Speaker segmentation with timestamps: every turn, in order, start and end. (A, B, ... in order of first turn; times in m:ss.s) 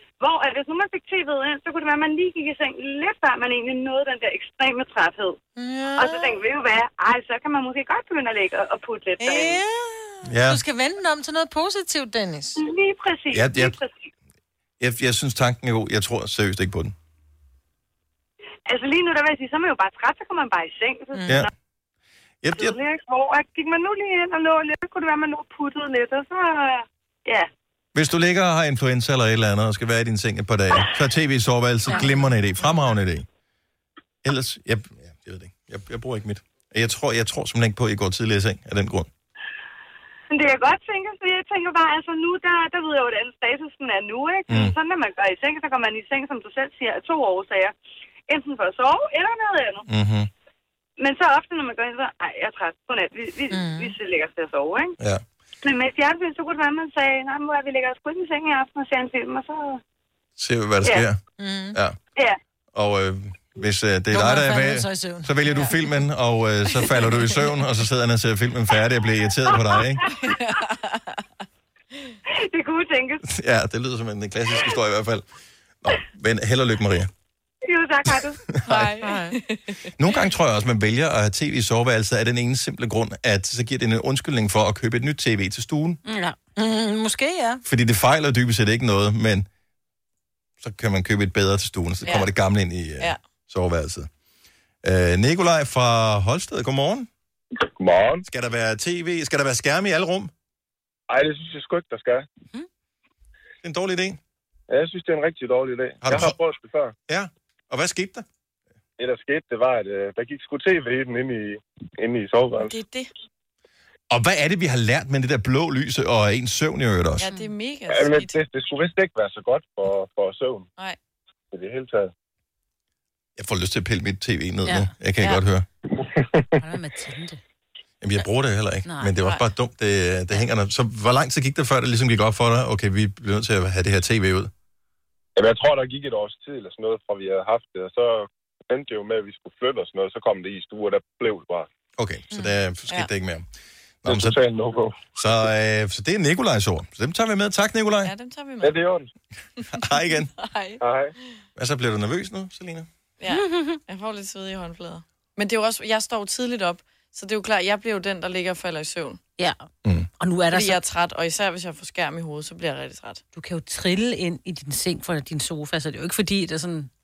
0:00.2-0:05.4 A
0:05.6-0:06.4 B
0:06.0-0:09.6 A
0:09.2-0:12.6 B
0:10.2-0:10.6 C
0:12.6-0:14.1 A
0:13.3-0:13.8 C
0:14.8-0:16.9 C
0:18.7-0:21.5 A
0:21.1-0:21.5 B
0:22.4-0:22.8 C
0:22.6-0:27.5 A
0:27.9-0:33.3 C
0:34.2-0:39.1 C
0:40.3-0:47.7 A
0:44.5-0:44.8 C
0:48.3-0:49.9 A
0:49.9-0:50.3 C
0:51.0-0:55.0 A
0:53.5-0:54.0 B
0:55.6-0:59.8 A
1:00.4-1:01.2 C
1:01.4-1:01.8 B
1:02.7-1:10.0 C
1:04.1-1:05.8 B
1:09.5-1:10.1 A
1:10.1-1:11.2 D
1:12.4-1:13.2 A
1:13.2-1:15.2 C
1:15.8-1:17.1 C
1:17.6-1:18.4 A
1:18.1-1:18.9 C
1:18.7-1:19.9 D
1:19.0-1:19.4 B
1:20.0-1:26.0 C
1:26.1-1:26.4 E
1:26.6-1:27.6 B
1:27.6-1:29.5 C
1:30.6-1:34.1 C
1:32.0-1:32.3 D
1:34.8-1:37.1 C
1:37.8-1:38.2 F
1:38.2-1:40.3 C
1:41.1-1:42.3 F
1:43.6-1:44.2 C
1:44.7-1:46.9 F
1:46.0-1:46.4 C
1:47.1-1:48.3 C
1:49.0-1:52.8 F
1:52.6-1:53.1 D
1:54.1-1:57.3 C
1:57.2-1:58.4 D
1:57.9-2:00.7 F
2:01.5-2:02.1 F
2:03.4-2:05.7 C
2:06.6-2:07.4 E
2:08.0-2:14.5 C
2:08.8-2:09.4 E
2:15.4-2:21.7 F
2:22.0-2:23.5 C
2:24.0-2:24.4 C
2:24.1-2:25.1 F
2:25.2-2:28.1 C
2:28.0-2:28.8 D
2:28.6-2:29.1 F
2:29.6-2:30.8 D
2:29.7-2:30.3 C
2:30.8-2:31.1 F
2:31.6-2:32.9 C
2:33.2-2:39.2 D
2:33.3-2:33.8 E
2:39.8-2:40.1 C
2:40.2-2:40.8 E
2:40.5-2:43.2 D
2:43.3-2:46.9 E